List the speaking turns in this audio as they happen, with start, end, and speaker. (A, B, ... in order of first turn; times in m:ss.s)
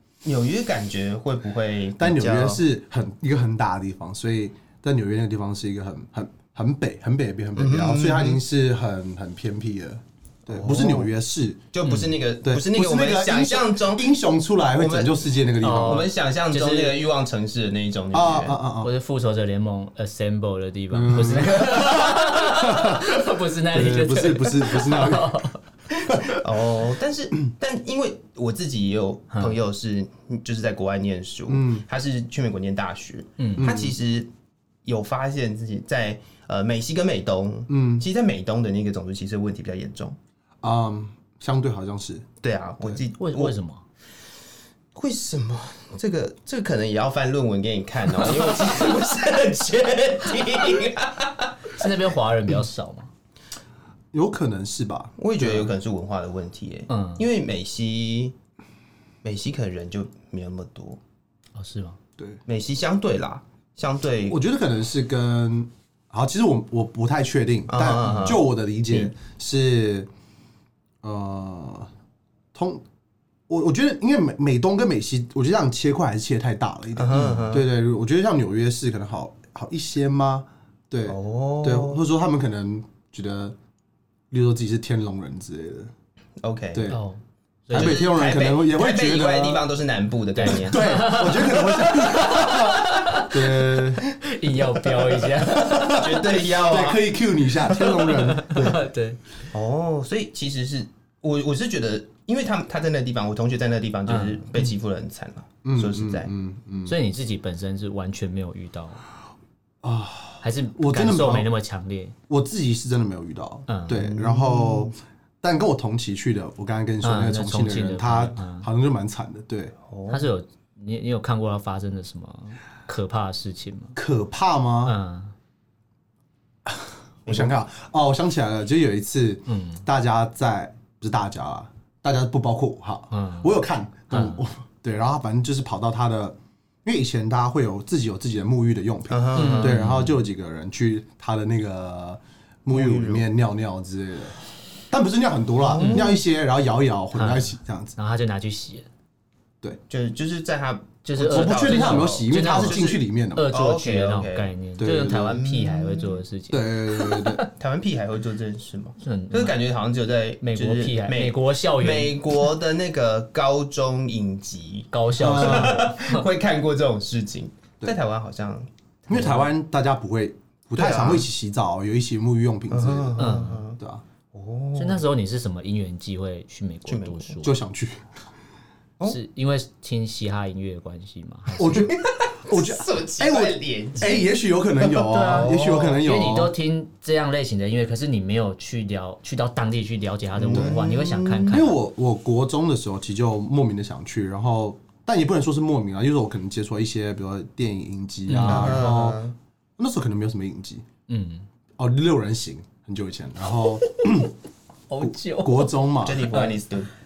0:00.2-0:02.6 A
0:02.0-0:11.6 B
0:07.6-0:08.4 A
0:10.5-0:11.1 A
0:11.7-0:14.1 A
0:11.8-0:12.2 C
0:12.4-0:16.1 B
0:14.8-0:15.2 A
0:15.6-0:17.0 C
0:15.8-0:18.6 A
0:18.1-0:18.9 B
0:18.8-0:25.6 C
0:20.9-0:23.1 B
0:23.7-0:25.3 B
0:26.0-0:34.3 A
0:26.1-0:26.4 B
0:31.5-0:31.8 B
0:33.4-0:33.7 C
0:33.6-0:34.0 B
0:34.8-0:40.2 A
0:37.7-0:38.1 B
0:40.6-0:42.3 B
0:42.4-0:43.5 A
0:43.2-0:43.8 C
0:45.0-0:51.9 A
0:51.7-0:53.1 C
0:54.1-0:55.8 B
0:55.2-0:58.4 A
0:56.9-0:57.3 C
0:59.2-1:01.0 A
1:01.6-1:02.0 C
1:02.5-1:04.4 A
1:04.3-1:10.1 B
1:07.7-1:09.1 A
1:11.0-1:11.9 B
1:12.5-1:12.8 B
1:13.5-1:23.6 B
1:17.0-1:17.7 A
1:21.1-1:22.0 A
1:24.3-1:25.9 B
1:26.4-1:27.0 A
1:26.7-1:27.0 B
1:26.9-1:28.0 C
1:27.7-1:31.0 A
1:27.7-1:29.7 B
1:30.4-1:36.0 C
1:30.4-1:34.0 B
1:35.2-1:38.8 B
1:35.9-1:37.1 A
1:37.7-1:39.2 C
1:39.5-1:46.3 A
1:44.1-1:44.5 C
1:45.6-1:47.0 B
1:46.9-1:49.0 C
1:49.8-1:51.5 B
1:50.4-1:52.2 C
1:52.3-1:59.7 B
1:53.7-1:54.1 C
1:53.9-1:54.9 A
1:57.0-1:58.7 C
1:59.9-2:00.3 A
2:00.1-2:04.0 C
2:04.0-2:05.0 B
2:04.8-2:05.3 C
2:06.7-2:24.4 B
2:07.3-2:07.5 A
2:09.5-2:09.8 C
2:13.1-2:13.5 C
2:14.1-2:14.4 C
2:19.1-2:19.8 A
2:19.4-2:20.2 C
2:22.7-2:23.2 A
2:24.9-2:28.0 B
2:25.6-2:26.2 A
2:25.8-2:26.2 C
2:27.1-2:28.9 C
2:29.9-2:34.5 A
2:31.0-2:37.5 C
2:31.3-2:33.5 B
2:34.8-2:35.4 B
2:35.1-2:36.2 A
2:36.5-2:37.4 B
2:37.6-2:49.3 A
2:39.0-2:39.6 C
2:40.4-2:42.4 C
2:44.9-2:46.3 C
2:45.2-2:45.9 B
2:49.1-2:53.2 B
2:49.1-2:49.4 C
2:50.7-2:51.3 A
2:52.7-2:53.8 A
2:53.2-2:53.6 C
2:53.8-2:54.0 B
2:54.3-2:55.0 A
2:54.8-2:57.6 C
2:56.9-2:57.4 A
2:57.4-2:58.0 B
2:59.0-3:01.9 C
3:01.6-3:06.5 B
3:01.9-3:04.3 A
3:04.8-3:06.0 A
3:05.1-3:11.8 C
3:10.4-3:11.6 A
3:10.4-3:10.8 B
3:11.5-3:19.2 B
3:18.3-3:18.9 C
3:18.4-3:19.4 A
3:19.8-3:20.8 B
3:21.1-3:21.5 C
3:21.8-3:24.3 B
3:24.9-3:25.8 C
3:25.0-3:26.4 B
3:26.0-3:26.9 A
3:26.3-3:26.6 C